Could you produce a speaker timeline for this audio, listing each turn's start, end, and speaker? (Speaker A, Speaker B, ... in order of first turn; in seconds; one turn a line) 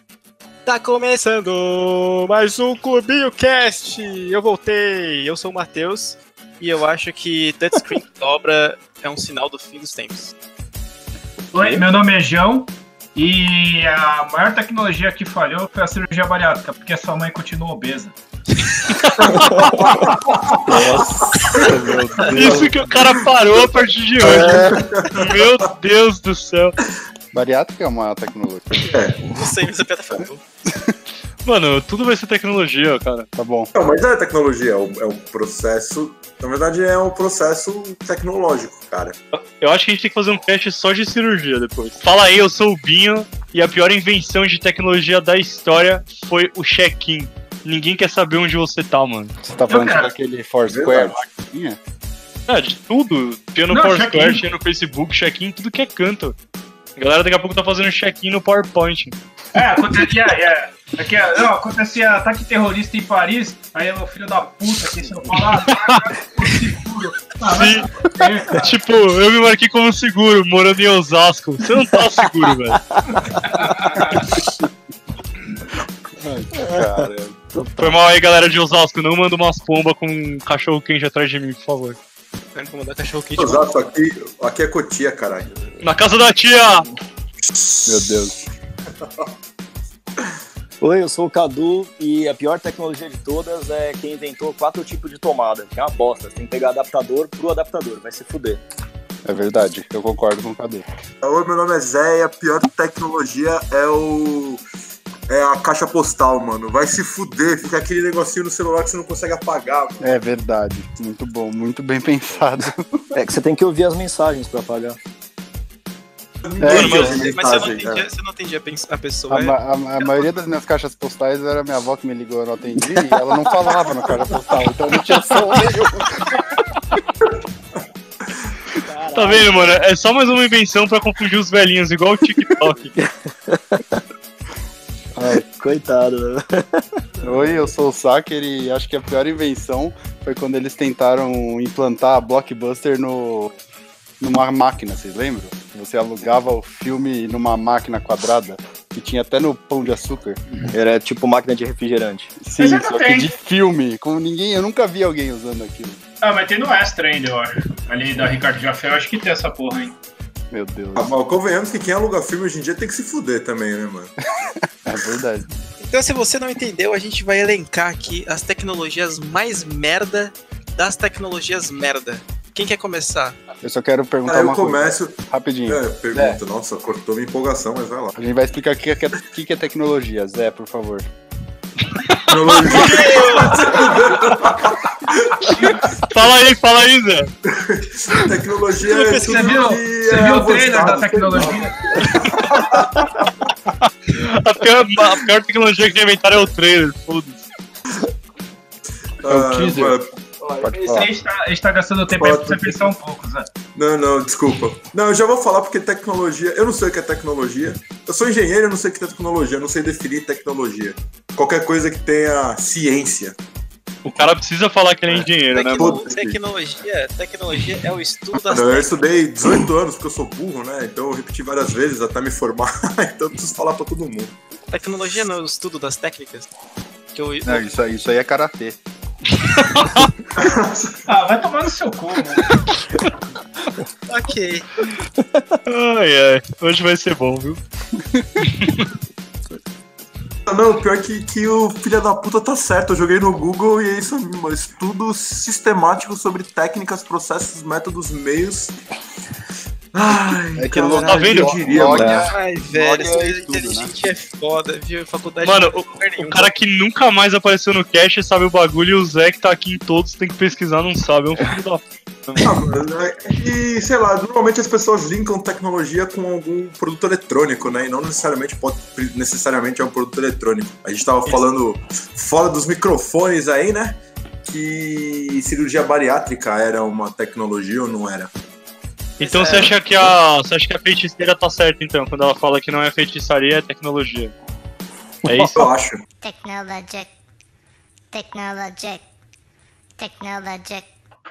Speaker A: 0.7-10.3
Speaker B: 11.5-18.1
Speaker C: 18.9-20.0
Speaker D: 19.2-23.2
Speaker E: 19.3-19.9
Speaker E: 20.7-21.1
Speaker F: 20.7-23.2
Speaker C: 22.2-26.8
Speaker D: 24.2-25.6
Speaker F: 27.3-28.8
Speaker D: 28.8-29.3
Speaker A: 29.2-30.4
Speaker C: 31.4-33.3
Speaker F: 33.3-33.7
Speaker D: 33.7-39.2
Speaker C: 39.4-49.3
Speaker F: 49.4-51.8
Speaker B: 49.7-50.1
Speaker D: 50.7-51.2
Speaker C: 52.5-56.3
Speaker B: 53.7-54.5
Speaker C: 57.0-59.1
Speaker B: 59.5-68.8
Speaker C: 65.5-66.0
Speaker C: 67.4-72.9
Speaker E: 72.9-74.2
Speaker B: 73.5-74.3
Speaker F: 76.2-77.4
Speaker E: 76.6-78.0
Speaker C: 77.8-82.0
Speaker A: 82.5-83.7
Speaker D: 83.4-85.5
Speaker C: 85.8-86.9
Speaker D: 87.5-88.0
Speaker F: 87.8-88.3
Speaker E: 90.8-98.6
Speaker F: 99.2-100.8
Speaker D: 101.2-104.6
Speaker D: 105.3-110.1
Speaker F: 110.0-113.1
Speaker E: 113.1-115.0
Speaker D: 116.4-118.0
Speaker F: 116.6-117.2
Speaker C: 116.7-117.2
Speaker A: 116.8-120.2
Speaker F: 119.3-126.3
Speaker E: 128.8-129.8
Speaker C: 129.1-132.9
Speaker E: 132.9-134.0
Speaker E: 135.2-136.8
Speaker F: 137.2-143.6
Speaker F: 144.2-150.4
Speaker E: 150.7-152.3
Speaker F: 152.4-156.0
Speaker B: 152.6-153.3
Speaker B: 156.2-159.9
Speaker F: 160.5-161.1
Speaker D: 160.9-164.1
Speaker F: 164.4-165.5
Speaker A: 165.8-173.4
Speaker F: 173.6-176.4
Speaker D: 174.2-178.1
Speaker F: 178.2-181.1
Speaker C: 182.0-182.8
Speaker D: 182.3-185.9
Speaker A: 182.7-183.9
Speaker C: 186.0-187.3
Speaker D: 187.5-193.2
Speaker A: 188.8-189.7
Speaker B: 189.1-191.9
Speaker C: 193.8-197.4
Speaker D: 199.2-200.1
Speaker F: 199.3-200.0
Speaker B: 200.4-203.5
Speaker F: 200.6-201.1
Speaker D: 202.1-202.9
Speaker D: 203.7-213.3
Speaker C: 214.0-216.0
Speaker A: 215.5-218.9
Speaker D: 215.8-216.4
Speaker D: 218.4-224.3
Speaker A: 224.7-226.5
Speaker A: 227.1-227.9
Speaker F: 227.4-228.8
Speaker C: 229.4-230.1
Speaker D: 230.4-231.0
Speaker B: 231.1-232.6
Speaker A: 234.1-234.7
Speaker E: 235.3-235.6
Speaker C: 235.7-237.6
Speaker F: 238.1-238.4
Speaker C: 238.4-238.9
Speaker D: 240.4-248.8
Speaker D: 249.9-252.3
Speaker F: 250.6-253.9
Speaker C: 251.0-252.0
Speaker A: 252.0-256.5
Speaker C: 255.4-262.6
Speaker D: 262.4-278.3
Speaker C: 279.2-284.3
Speaker A: 279.2-279.8
Speaker C: 285.2-285.6
Speaker D: 285.5-286.0
Speaker G: 286.2-287.1
Speaker G: 288.1-289.0
Speaker G: 290.0-290.9